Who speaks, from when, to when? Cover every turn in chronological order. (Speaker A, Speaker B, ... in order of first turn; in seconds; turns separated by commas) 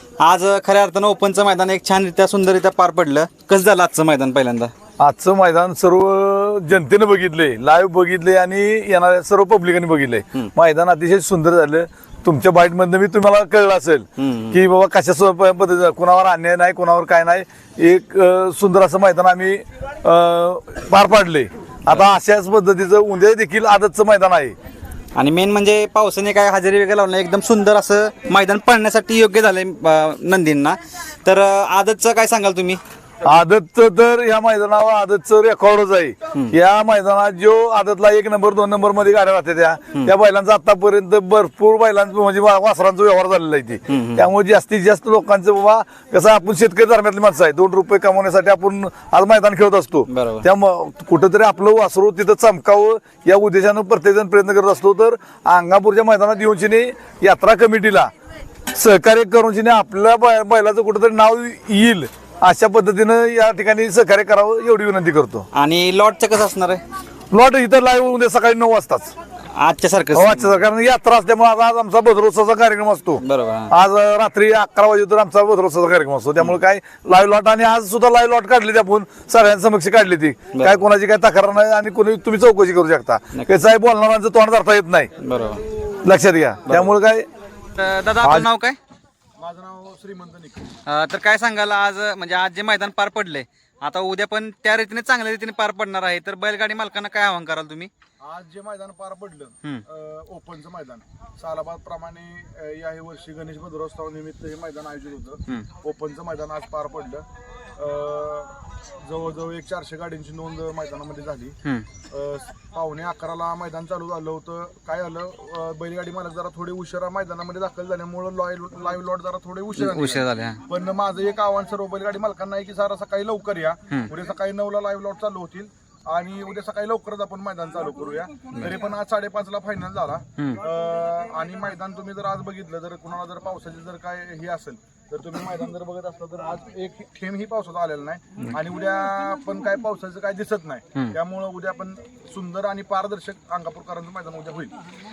Speaker A: 0.2-4.7, Speaker B: 5.0-24.6, Speaker A: 14.2-14.6, Speaker A: 25.1-32.8, Speaker B: 33.2-58.1, Speaker A: 43.9-44.3, Speaker A: 50.1-50.5, Speaker B: 58.7-65.5, Speaker A: 65.5-66.8, Speaker B: 67.3-69.1, Speaker A: 69.5-70.6, Speaker B: 70.1-85.1, Speaker A: 73.2-73.7, Speaker A: 80.5-80.8, Speaker A: 85.2-85.6, Speaker B: 86.0-87.3, Speaker A: 86.7-87.0, Speaker A: 87.8-88.8, Speaker B: 88.2-88.5, Speaker C: 89.4-90.7, Speaker A: 90.9-97.9, Speaker C: 98.2-107.2, Speaker C: 107.8-111.5, Speaker C: 112.1-144.8, Speaker A: 119.8-120.6